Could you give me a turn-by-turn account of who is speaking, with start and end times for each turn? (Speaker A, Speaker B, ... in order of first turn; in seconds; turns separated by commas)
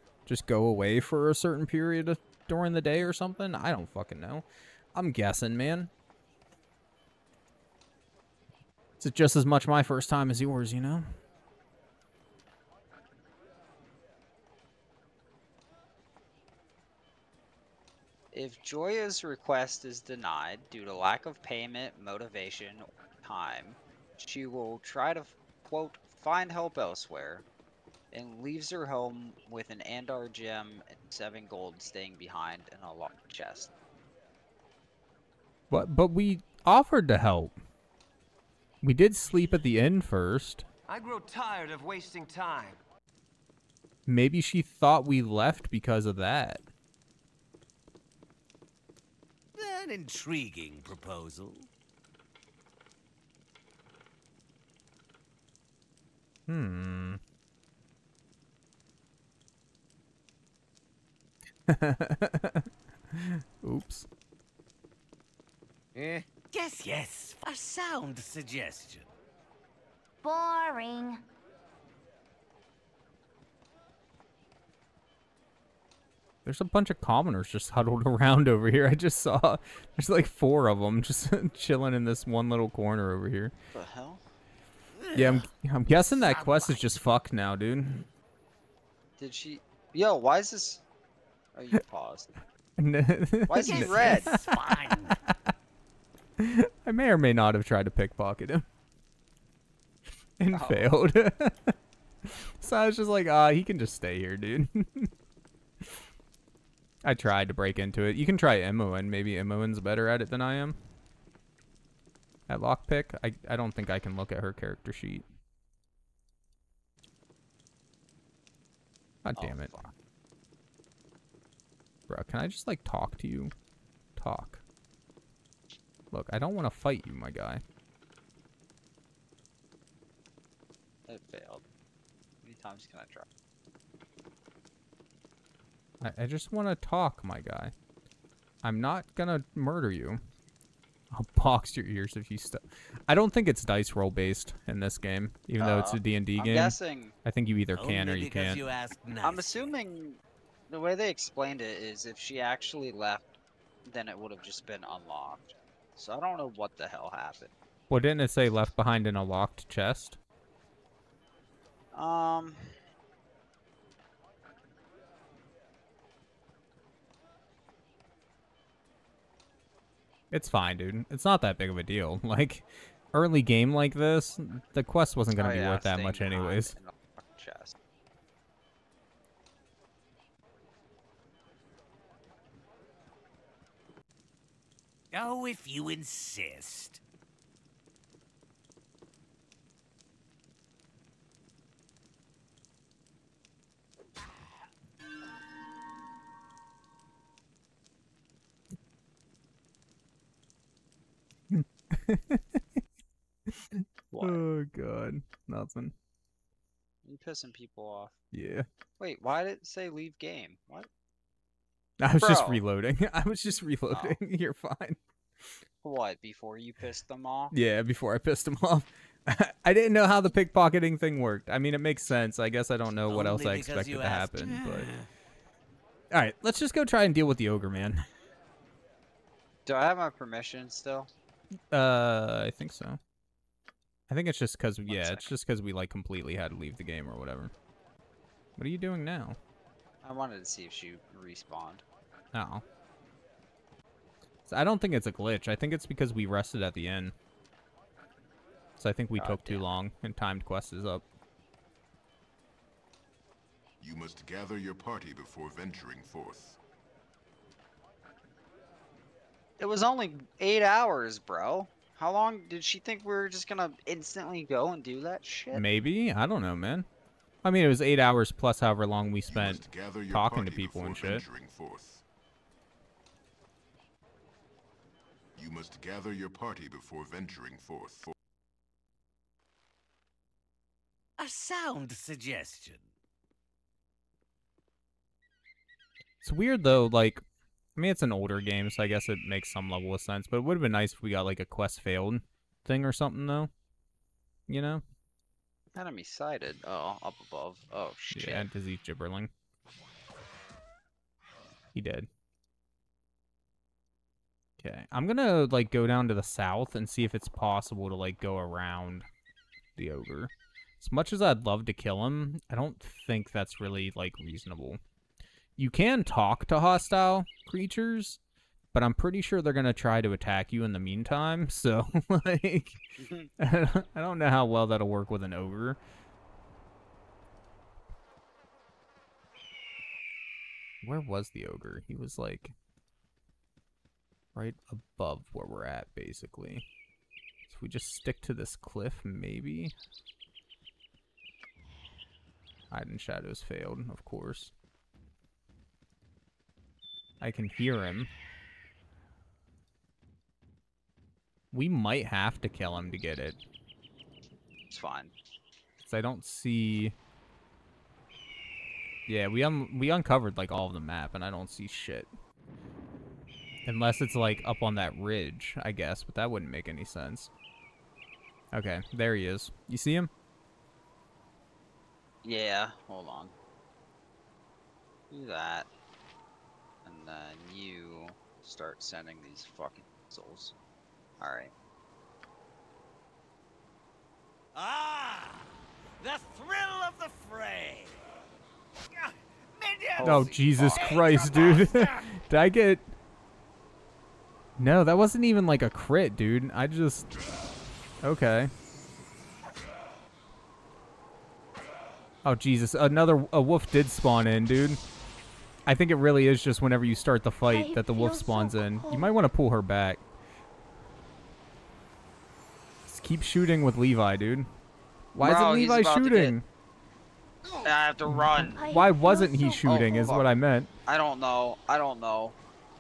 Speaker A: 0.3-5.9, Speaker A: 9.0-11.1, Speaker B: 18.3-27.4, Speaker B: 28.1-33.7, Speaker A: 35.7-37.6, Speaker A: 38.8-40.6, Speaker C: 40.9-42.8, Speaker A: 44.1-46.6, Speaker D: 49.6-51.7, Speaker A: 56.5-57.2, Speaker A: 61.7-64.1, Speaker D: 66.0-69.1, Speaker E: 70.2-71.2, Speaker A: 76.5-83.5, Speaker B: 83.7-84.2, Speaker D: 85.0-86.9, Speaker A: 85.1-88.1, Speaker B: 89.2-90.8, Speaker B: 91.5-92.3, Speaker A: 92.8-94.5, Speaker B: 93.5-94.3, Speaker D: 93.6-95.2, Speaker A: 96.4-98.7, Speaker A: 100.4-105.1, Speaker B: 100.5-100.9, Speaker A: 107.0-110.8, Speaker A: 112.5-115.3, Speaker A: 119.2-119.8, Speaker B: 119.4-119.9, Speaker A: 122.1-123.5, Speaker A: 124.2-124.6, Speaker A: 126.1-127.6, Speaker B: 131.1-131.6, Speaker B: 132.4-133.3, Speaker A: 136.0-137.7, Speaker A: 138.6-140.2, Speaker A: 141.1-148.6, Speaker B: 145.6-147.2, Speaker D: 147.8-149.7, Speaker B: 149.2-157.5, Speaker A: 157.9-160.2, Speaker B: 161.9-162.7, Speaker A: 170.3-176.8, Speaker B: 175.4-177.8, Speaker D: 185.1-187.0, Speaker A: 201.5-202.8, Speaker A: 203.5-205.9, Speaker B: 204.1-204.4, Speaker B: 207.1-208.2, Speaker A: 208.3-208.7, Speaker B: 209.0-210.9, Speaker A: 212.0-215.0, Speaker B: 212.2-212.6, Speaker B: 213.9-214.2, Speaker B: 215.8-217.5, Speaker A: 217.5-224.9, Speaker D: 223.1-225.1, Speaker A: 226.1-228.0, Speaker B: 229.7-231.1, Speaker A: 231.7-233.0, Speaker A: 234.1-237.5, Speaker B: 234.9-235.3, Speaker A: 238.6-239.4, Speaker B: 240.0-241.8, Speaker A: 242.3-242.6, Speaker A: 244.5-247.2, Speaker A: 248.8-251.1, Speaker B: 249.2-249.7, Speaker F: 253.8-256.6, Speaker B: 259.6-265.6, Speaker A: 265.5-266.9, Speaker A: 267.4-271.3, Speaker F: 269.3-272.0, Speaker F: 275.4-278.1, Speaker D: 281.2-282.9, Speaker A: 286.2-287.2, Speaker A: 287.8-293.5, Speaker A: 294.5-294.8, Speaker B: 295.8-298.5, Speaker A: 298.1-299.3, Speaker A: 301.8-302.1, Speaker A: 304.6-309.1, Speaker A: 309.8-314.8, Speaker A: 315.6-318.2, Speaker A: 318.7-322.8, Speaker B: 323.0-323.3, Speaker A: 323.4-325.8, Speaker A: 330.8-332.6, Speaker A: 334.4-336.7, Speaker A: 337.5-339.8, Speaker A: 342.7-344.5, Speaker A: 347.2-348.1, Speaker A: 351.5-353.4, Speaker B: 354.7-355.1, Speaker A: 355.8-357.0, Speaker A: 359.1-362.1, Speaker A: 363.6-367.3, Speaker A: 368.5-370.1, Speaker B: 372.2-373.3, Speaker B: 375.1-375.7, Speaker B: 376.9-380.5, Speaker B: 381.2-381.5, Speaker D: 384.6-388.0, Speaker D: 389.0-392.1, Speaker B: 390.0-390.9, Speaker A: 390.0-392.9, Speaker A: 394.6-397.1, Speaker A: 398.0-398.5, Speaker A: 402.2-404.8, Speaker A: 405.7-410.0, Speaker E: 407.5-409.1, Speaker A: 412.9-414.5, Speaker A: 415.1-416.5, Speaker B: 415.2-416.4, Speaker B: 417.6-418.6, Speaker A: 418.1-420.7, Speaker E: 418.6-419.7, Speaker B: 419.6-420.3, Speaker B: 420.9-422.4